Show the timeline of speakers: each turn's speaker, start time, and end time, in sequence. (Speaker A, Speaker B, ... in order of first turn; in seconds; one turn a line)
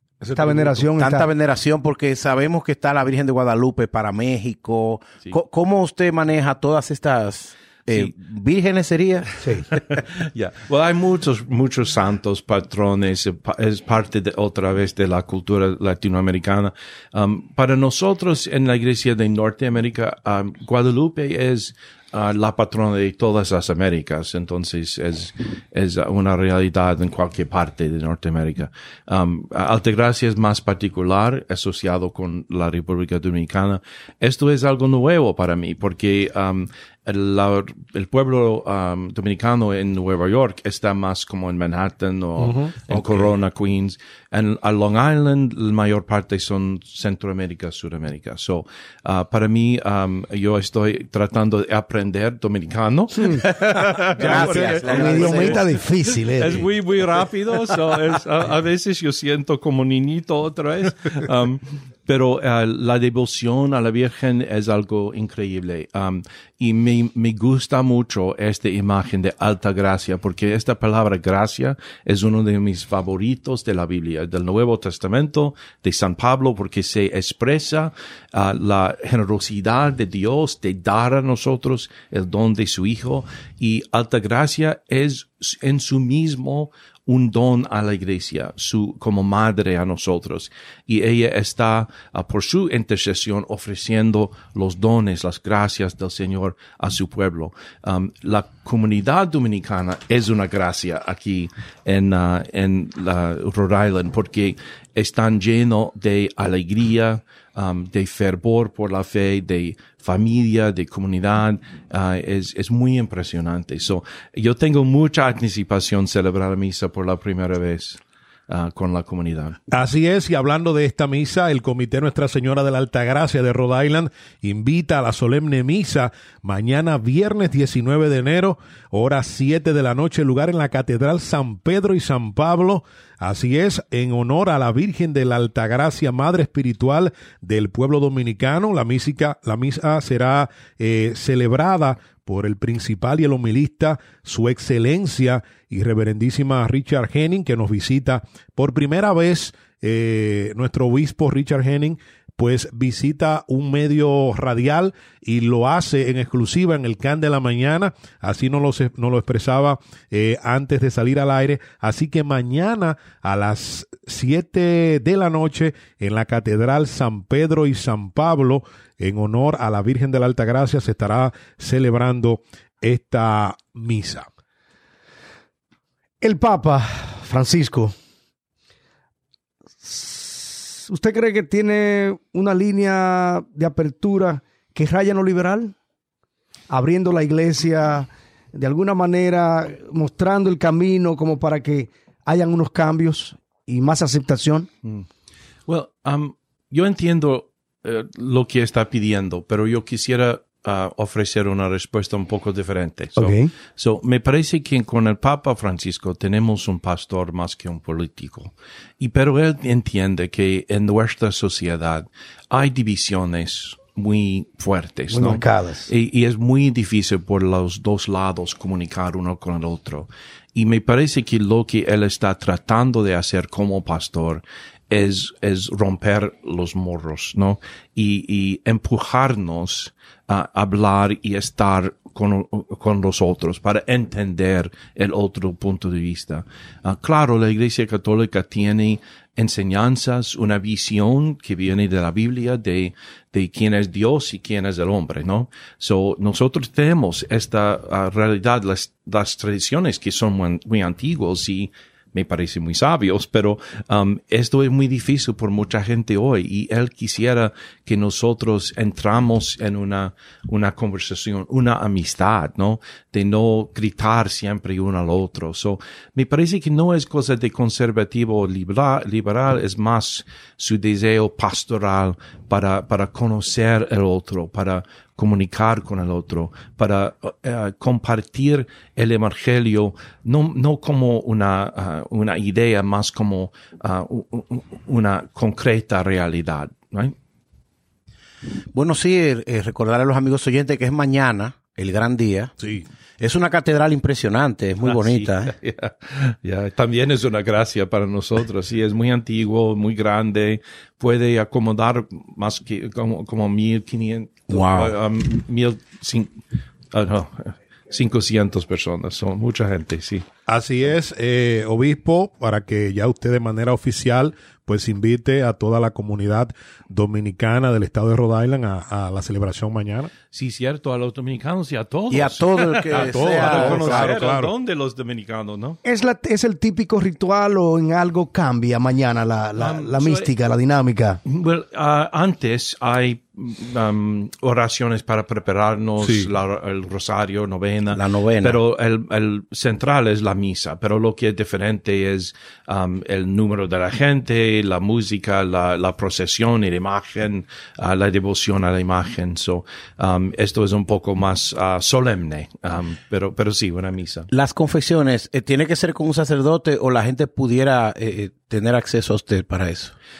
Speaker A: 0.2-9.3
Speaker B: 0.3-1.3
Speaker C: 7.9-8.2
Speaker B: 9.4-9.7
Speaker C: 9.7-119.6
Speaker D: 42.4-43.3
Speaker A: 54.2-55.6
Speaker B: 54.2-56.7
Speaker D: 119.7-174.3
Speaker B: 176.2-177.9
Speaker B: 179.8-185.7
Speaker B: 186.7-194.7
Speaker C: 195.7-287.1
Speaker B: 203.2-203.5
Speaker B: 215.1-215.9
Speaker A: 288.7-292.5
Speaker D: 292.6-292.9
Speaker A: 293.2-295.5
Speaker C: 294.8-306.4
Speaker A: 304.5-304.9
Speaker C: 306.9-310.2
Speaker D: 310.5-320.1
Speaker C: 320.3-325.8
Speaker A: 322.1-324.1
Speaker D: 322.9-324.5
Speaker B: 325.8-331.2
Speaker C: 329.6-330.4
Speaker C: 331.2-354.3
Speaker D: 336.0-336.3
Speaker A: 337.9-338.6
Speaker A: 354.3-359.9